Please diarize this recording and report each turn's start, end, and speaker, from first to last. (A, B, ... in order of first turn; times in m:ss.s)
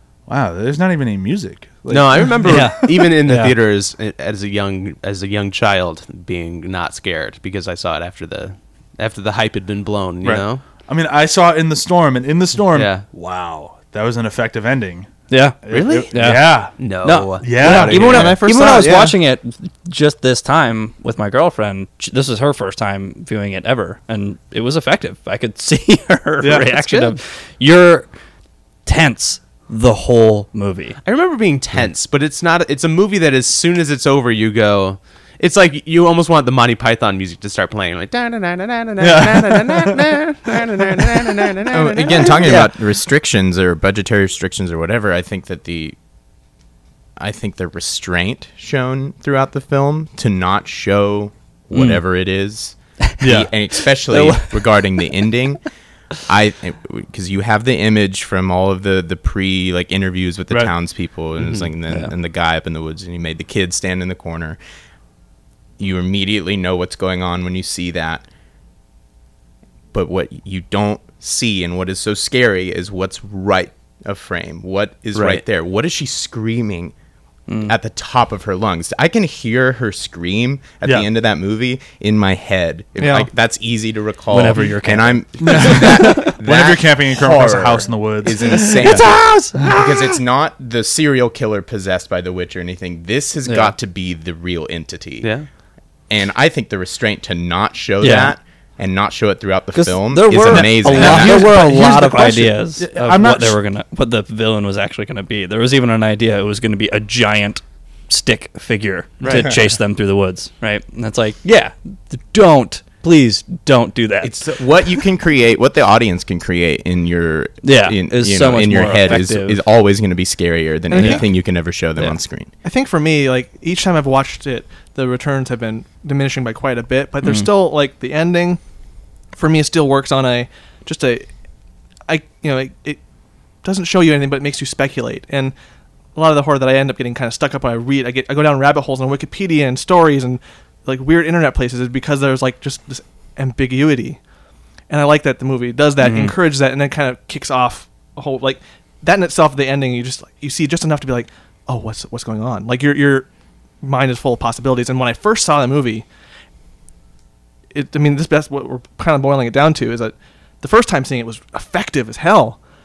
0:00.3-0:03.1 A
0:01.9-0:10.6 B
0:02.4-0:03.5 C
0:10.2-0:16.8 A
0:12.7-0:13.0 B
0:15.3-0:15.6 C
0:15.7-0:19.0 B
0:16.1-0:28.1 C
0:17.4-0:18.4 A
0:17.7-0:19.1 D
0:26.4-0:26.8 A
0:28.9-0:31.0 C
0:31.0-0:42.6 B
0:39.0-0:40.0 A
0:41.7-0:46.0 E
0:42.4-0:42.7 C
0:47.2-0:55.6 E
0:51.7-0:52.0 C
0:53.2-0:53.5 A
0:54.1-0:54.8 C
0:56.3-1:04.6 E
1:01.4-1:01.7 B
1:05.8-1:08.2 E
1:09.9-1:16.9 E
1:15.1-1:15.4 B
1:17.5-1:17.7 C
1:17.6-1:35.3 E
1:23.0-1:23.3 D
1:24.3-1:26.4 C
1:25.4-1:29.1 A
1:28.4-1:30.0 C
1:33.5-1:33.7 C
1:35.2-1:35.5 B
1:36.1-1:41.6 E
1:38.0-1:38.4 C
1:39.7-1:54.4 C
1:40.5-1:43.6 A
1:49.2-1:49.5 B
1:54.2-2:02.5 E
1:57.6-1:59.6 C
2:00.9-2:01.2 D
2:01.0-2:01.3 C
2:02.6-2:08.6 D
2:07.2-2:07.5 C
2:09.4-2:11.3 D
2:12.1-2:13.0 D
2:13.6-2:15.5 D
2:16.2-2:24.2 D
2:24.9-2:33.3 D
2:26.0-2:26.4 C
2:33.8-2:36.1 D
2:37.7-2:42.6 D